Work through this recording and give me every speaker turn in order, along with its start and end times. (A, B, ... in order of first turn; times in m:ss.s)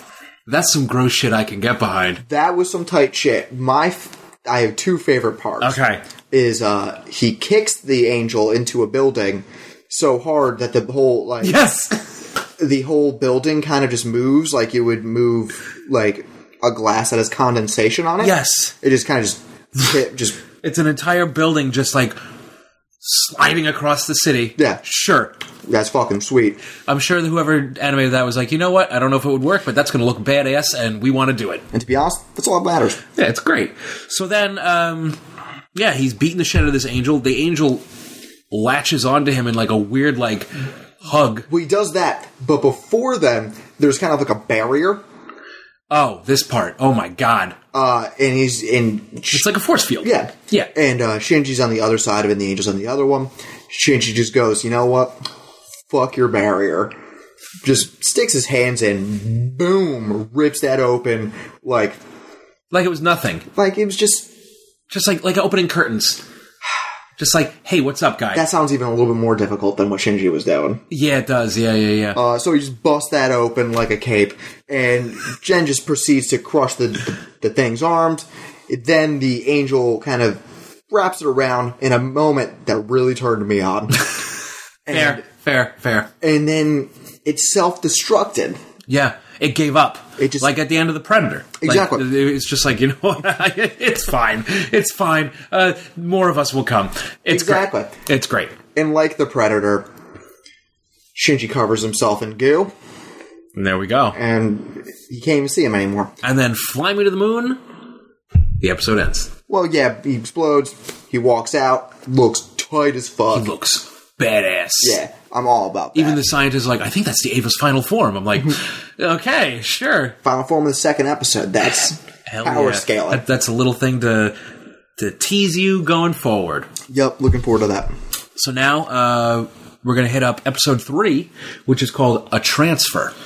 0:00.5-0:02.2 A
0:02.2-0:05.8 B
0:05.6-0:06.0 A
0:06.3-0:11.6 B
0:11.4-0:12.1 A
0:12.6-0:20.4 B
0:18.2-0:18.7 A
0:20.6-0:22.2 A
0:23.0-0:25.3 A
0:24.6-0:24.8 B
0:25.6-0:26.6 B
0:26.9-0:31.7 A
0:31.7-0:33.0 B
0:33.2-0:35.2 A
0:35.8-0:37.8 A
0:38.5-0:41.5 A
0:41.5-0:45.0 B
0:45.9-0:47.6 A
0:47.7-0:49.5 B
0:49.3-0:50.7 A
0:50.0-0:55.2 B
0:55.9-0:56.9 B
0:57.6-1:02.0 B
1:02.7-1:03.5 A
1:03.5-1:04.3 B
1:04.9-1:06.2 A
1:07.2-1:08.4 A
1:08.3-1:10.8 B
1:10.9-1:12.2 A
1:12.1-1:24.1 B
1:24.9-1:25.2 B
1:24.9-1:26.1 A
1:26.2-1:28.6 B
1:28.9-1:38.6 A
1:30.2-1:30.5 B
1:31.6-1:32.1 B
1:37.3-1:37.9 B
1:38.7-1:39.9 B
1:41.2-1:42.7 B
1:43.6-1:44.2 A
1:44.1-1:46.2 B
1:46.2-1:47.6 A
1:48.6-1:49.3 A
1:49.5-1:53.5 B
1:53.3-1:55.0 A
1:54.8-1:56.2 B
1:55.9-2:00.2 A
2:00.2-2:03.2 B
2:02.3-2:04.4 A
2:05.0-2:06.7 A
2:06.9-2:07.9 B
2:08.4-2:13.1 A